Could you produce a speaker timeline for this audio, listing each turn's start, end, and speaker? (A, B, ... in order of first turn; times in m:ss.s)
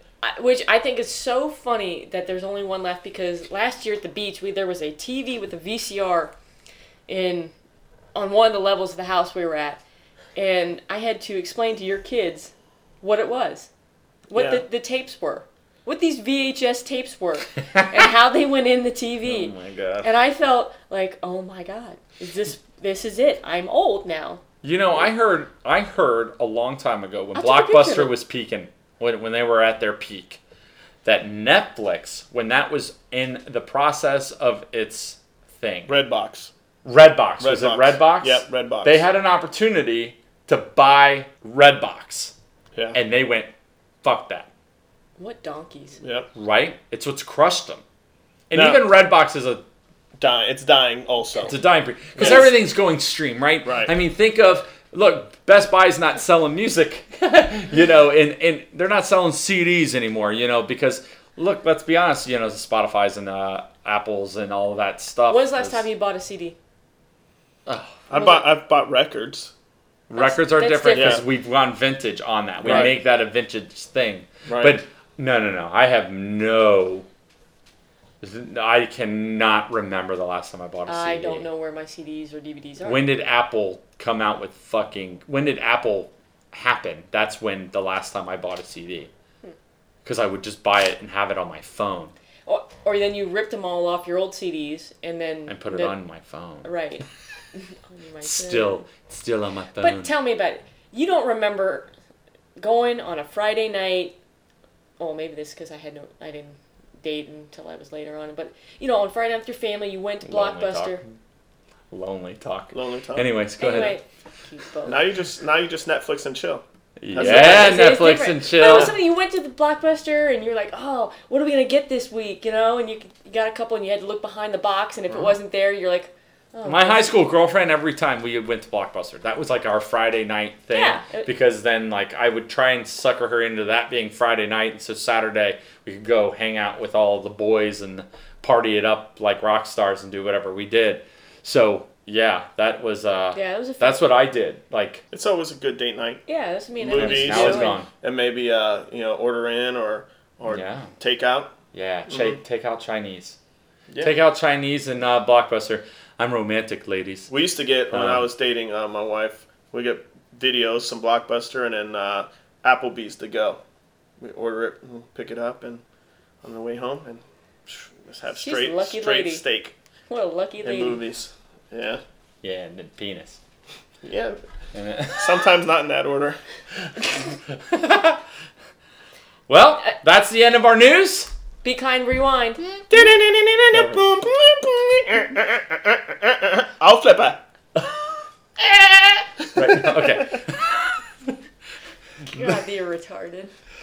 0:00.2-0:06.3 A
0:07.1-0:07.5 A
0:08.1-0:09.8 A
0:10.3-0:13.7 A
0:14.3-0:24.4 A
0:14.3-0:14.6 B
0:19.2-0:20.1 C
0:24.6-0:30.4 C
0:27.3-0:28.1 A
0:31.0-0:35.9 C
0:35.9-0:36.5 B
0:36.8-0:42.3 C
0:37.4-0:39.0 B
0:42.9-0:43.5 C
0:44.0-0:44.5 C
0:45.2-0:46.0 A
0:46.0-0:46.3 B
0:46.4-0:47.8 C
0:48.5-0:49.6 C
0:48.5-0:48.8 B
0:50.2-0:51.5 B
0:51.4-1:05.9 C
0:52.1-0:52.5 B
0:53.6-0:53.9 B
1:05.3-1:06.6 A
1:07.6-1:08.0 C
1:08.1-1:09.5 B
1:08.1-1:08.4 A
1:10.1-1:17.0 C
1:10.2-1:11.2 A
1:11.0-1:11.2 B
1:12.6-1:12.9 B
1:12.6-1:12.9 A
1:14.5-1:14.8 B
1:18.2-1:21.4 C
1:20.9-1:23.0 A
1:22.8-1:29.1 C
1:30.0-1:32.1 C
1:32.4-1:35.9 A
1:35.5-1:36.7 C
1:36.6-1:37.0 A
1:37.6-1:38.9 A
1:38.2-1:40.1 C
1:39.8-1:41.9 A
1:42.6-1:44.1 A
1:45.0-1:51.0 A
1:50.2-1:51.0 C
1:51.9-1:54.0 C
1:52.7-1:53.3 B
1:53.6-1:55.0 A
1:54.9-1:57.7 B
1:57.0-1:58.9 C
1:57.2-2:07.2 A
1:58.6-1:58.9 B
2:05.1-2:05.4 C
2:06.6-2:25.0 C
2:10.7-2:11.3 A
2:23.3-2:24.1 A
2:25.1-2:26.2 B
2:26.3-2:27.8 A
2:26.8-2:31.5 B
2:26.9-2:27.9 C
2:30.5-2:30.9 C
2:31.7-2:33.4 C
2:32.1-2:32.4 B
2:34.0-2:37.3 C
2:37.3-2:43.6 B
2:37.9-2:38.3 C
2:44.2-2:45.8 B
2:46.4-2:49.7 B
2:48.4-2:49.4 A
2:50.1-2:51.0 A
2:50.6-2:52.0 B
2:52.4-2:53.4 C
2:54.0-2:54.4 B
2:54.7-2:55.4 C
2:55.1-2:56.4 B
2:57.5-2:58.2 C
2:59.5-3:01.3 C
3:01.6-3:02.6 A
3:02.9-3:07.4 B
3:03.7-3:04.0 C
3:08.6-3:11.3 C
3:09.6-3:10.0 B
3:12.3-3:13.5 A